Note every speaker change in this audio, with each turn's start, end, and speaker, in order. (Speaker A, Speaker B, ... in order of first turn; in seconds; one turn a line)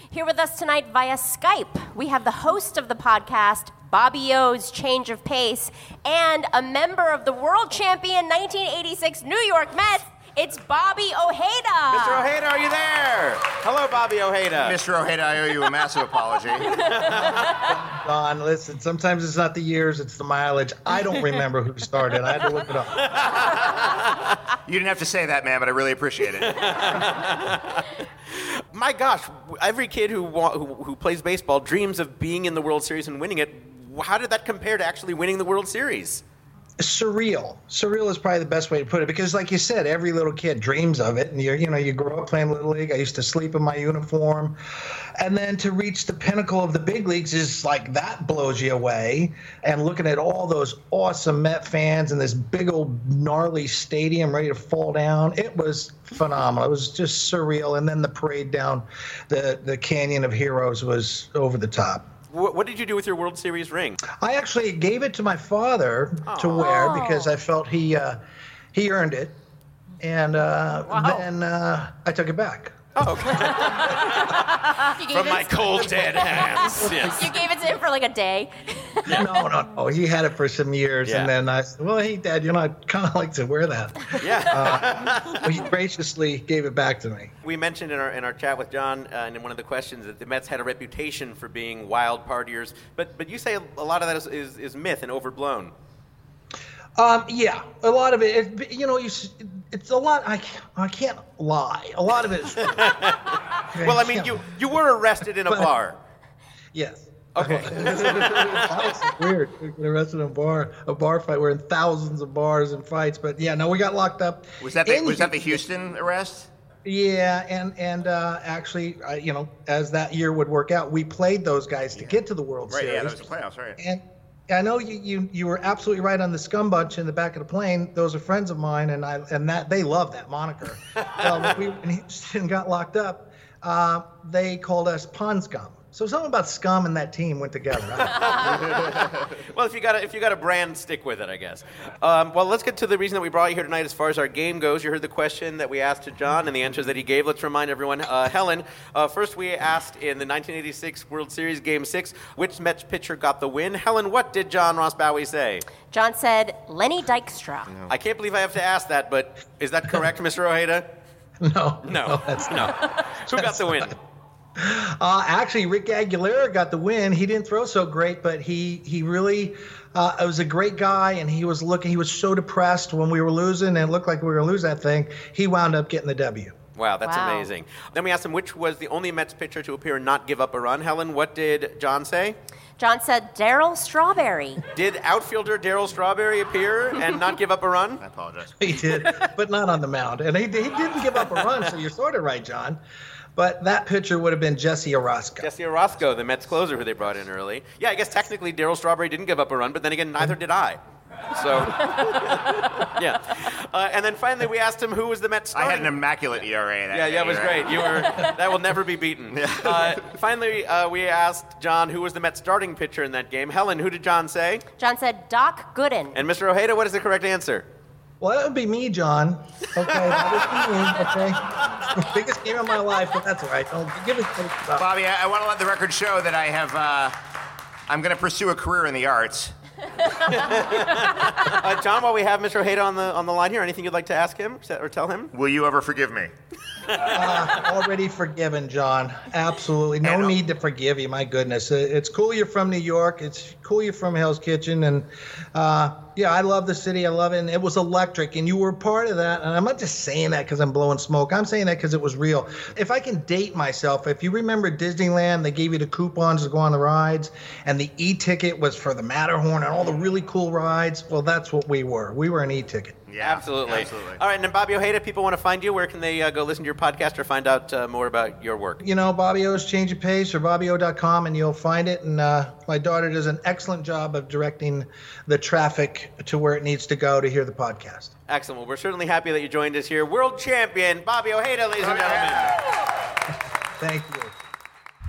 Speaker A: 0.1-12.3
Speaker B: 11.9-14.8
Speaker C: 14.6-16.6
Speaker B: 16.7-17.5
Speaker D: 17.2-23.1
Speaker C: 24.7-26.5
Speaker B: 26.4-36.2
Speaker D: 36.8-44.6
Speaker D: 45.2-62.0
Speaker B: 62.3-64.0
Speaker D: 64.1-68.2
Speaker B: 66.2-66.8
Speaker A: 66.6-67.3
Speaker D: 68.7-69.3
Speaker D: 70.0-72.8
Speaker B: 73.0-77.3
Speaker A: 74.8-79.3
Speaker D: 79.1-87.3
Speaker B: 81.0-81.3
Speaker B: 84.2-85.5
Speaker B: 87.4-95.7
Speaker D: 97.0-102.9
Speaker B: 102.6-106.0
Speaker D: 103.7-104.5
Speaker D: 106.7-115.6
Speaker B: 107.3-109.1
Speaker C: 114.6-116.5
Speaker D: 116.8-138.4
Speaker C: 122.7-123.8
Speaker B: 131.0-131.5
Speaker B: 138.1-139.0
Speaker B: 139.5-155.7
Speaker A: 155.9-157.7
Speaker B: 157.9-160.9
Speaker D: 161.4-162.8
Speaker B: 161.8-163.9
Speaker D: 163.3-164.0
Speaker D: 164.6-176.5
Speaker B: 176.8-182.4
Speaker A: 177.0-177.5
Speaker A: 182.8-184.6
Speaker B: 184.7-188.0
Speaker C: 188.0-188.5
Speaker D: 188.6-192.8
Speaker D: 193.3-195.5
Speaker B: 195.4-200.8
Speaker B: 201.3-206.0
Speaker C: 205.5-207.7
Speaker B: 206.9-214.6
Speaker C: 209.3-209.9
Speaker A: 214.8-216.2
Speaker B: 216.1-217.7
Speaker D: 218.2-221.4
Speaker D: 221.9-224.8
Speaker C: 224.8-227.1
Speaker C: 227.9-229.5
Speaker B: 230.2-235.3
Speaker C: 235.3-236.3
Speaker D: 237.1-263.0
Speaker C: 263.1-264.2
Speaker B: 263.2-268.8
Speaker D: 268.8-278.1
Speaker B: 278.3-282.6
Speaker C: 282.0-282.3
Speaker D: 283.8-284.3